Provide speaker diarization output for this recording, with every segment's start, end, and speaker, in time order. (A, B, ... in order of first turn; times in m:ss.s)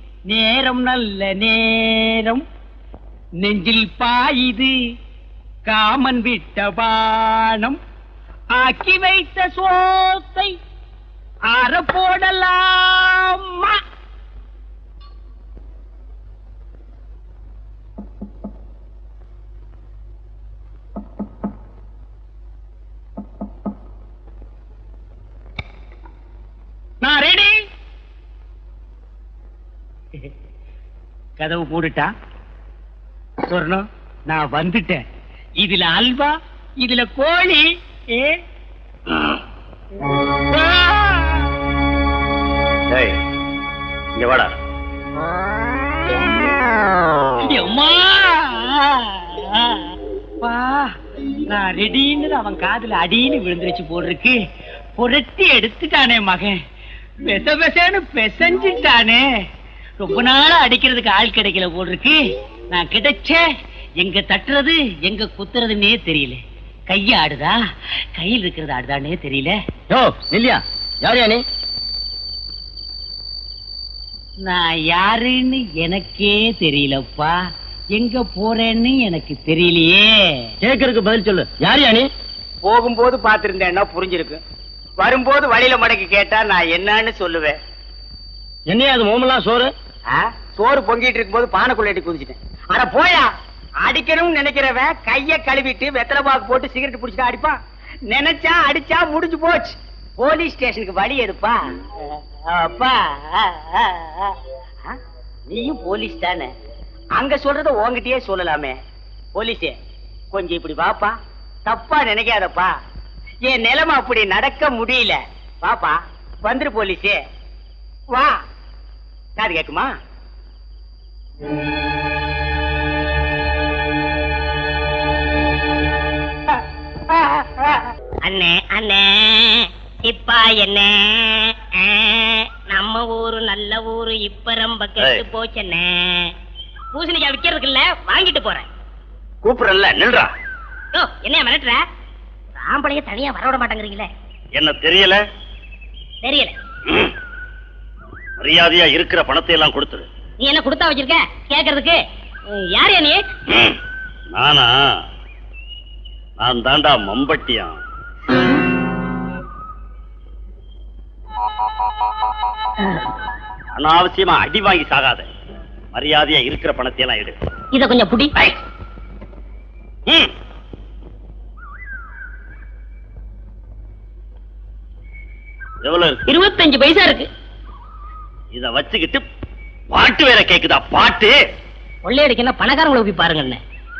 0:00.2-0:02.4 A
0:03.4-0:04.7 A
0:05.7-0:07.8 A
0:08.5-0:10.5 A
0:11.5-0:13.8 A
0:27.0-0:27.5 A
0:31.4-0:32.1 A
0:33.4-0:35.0 A
0:35.6-0:37.6 A
0:40.8-0:41.1 A
0:44.2-0:44.6 B
0:47.4-0:49.8 A
0:50.4-0:50.9 A
0:51.5-0:54.4 A
0:55.0-0:56.6 A
0:57.2-0:59.2 A
1:00.0-1:02.2 A
1:02.7-1:03.4 A
1:04.0-1:07.6 A
1:08.2-1:09.6 A
1:09.9-1:11.4 C
1:14.4-1:17.3 A
1:17.9-1:20.2 A
1:20.6-1:22.0 C
1:22.6-1:24.4 A
1:25.0-1:27.6 A
1:28.7-1:29.7 C
1:30.1-1:33.3 A
1:33.8-1:37.6 A
1:38.1-1:41.6 A
1:42.1-1:44.3 A
1:45.5-1:46.5 A
1:47.1-1:48.8 A
1:49.3-1:49.8 A
1:50.3-1:51.1 A
1:51.6-1:52.7 A
1:53.4-1:57.2 A
1:59.4-1:59.9 A
2:07.1-2:07.8 A
2:08.2-2:16.3 D
2:16.9-2:18.7 D
2:19.4-2:20.3 B
2:20.9-2:21.8 D
2:22.6-2:24.1 D
2:24.5-2:25.2 B
2:26.2-2:26.5 D
2:28.4-2:30.1 B
2:30.4-2:32.0 D
2:32.7-2:33.2 D
2:34.3-2:34.9 B
2:36.4-2:37.8 B
2:43.8-2:45.2 B
2:45.9-2:47.3 B
2:47.7-2:48.5 D
2:55.8-2:56.2 B
2:56.3-2:57.3 D
2:58.5-2:59.2 B
2:59.9-3:01.4 B
3:02.0-3:03.6 D